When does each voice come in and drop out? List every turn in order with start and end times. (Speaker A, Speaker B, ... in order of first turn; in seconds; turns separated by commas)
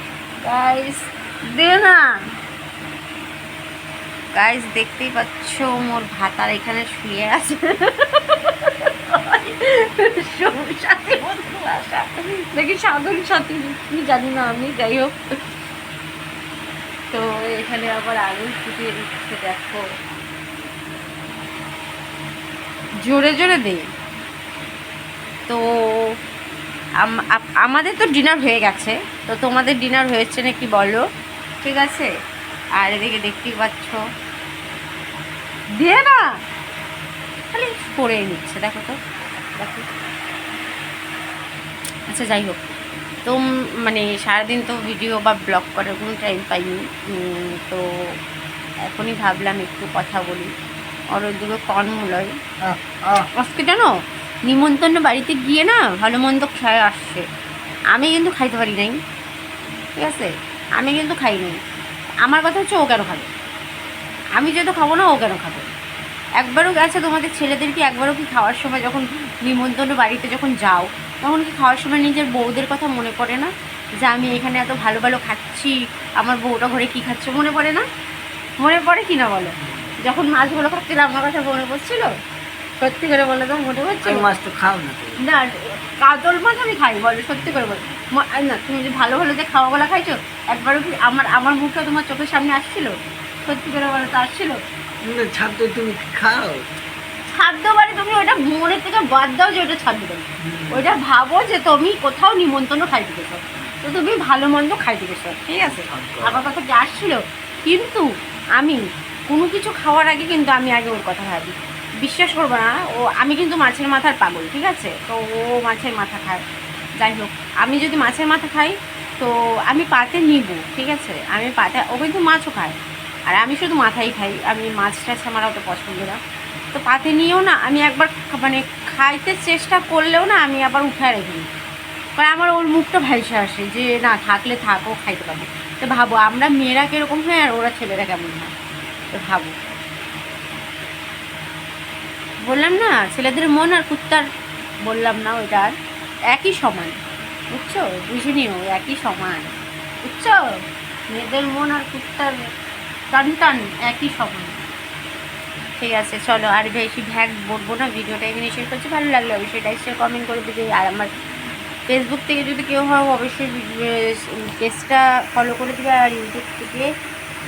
Speaker A: 0.4-2.2, Speaker A: 4.3-15.1, Speaker B: 11.3-11.7, Speaker A: 17.1-19.8, Speaker A: 23.0-23.8, Speaker A: 25.5-26.1, Speaker A: 27.0-31.0, Speaker A: 31.6-32.1, Speaker A: 32.8-34.0, Speaker A: 35.8-36.3, Speaker A: 37.5-38.9, Speaker A: 39.6-39.9, Speaker A: 42.1-42.6, Speaker A: 43.2-47.8, Speaker A: 48.9-50.5, Speaker A: 51.1-52.3, Speaker B: 52.6-53.3, Speaker A: 53.4-53.9, Speaker A: 54.5-57.2, Speaker A: 57.9-59.0, Speaker A: 60.0-61.6, Speaker A: 62.2-63.3, Speaker A: 64.3-65.7, Speaker A: 66.4-77.8, Speaker A: 78.6-82.1, Speaker B: 79.6-79.9, Speaker A: 82.8-84.3, Speaker B: 84.0-85.2, Speaker A: 85.2-92.9, Speaker B: 87.4-87.7, Speaker A: 93.5-94.6, Speaker B: 95.0-96.6, Speaker A: 97.3-108.1, Speaker B: 100.4-100.9, Speaker B: 105.6-106.4, Speaker A: 108.6-116.4, Speaker A: 117.0-122.8, Speaker A: 123.3-126.2, Speaker A: 126.7-131.5, Speaker A: 132.2-138.5, Speaker A: 139.1-139.5, Speaker A: 142.5-144.3, Speaker A: 144.8-145.7, Speaker A: 146.3-147.0, Speaker A: 147.5-149.5, Speaker A: 150.0-150.4, Speaker A: 151.1-152.4, Speaker A: 153.1-154.6, Speaker A: 155.8-161.1, Speaker A: 161.9-166.9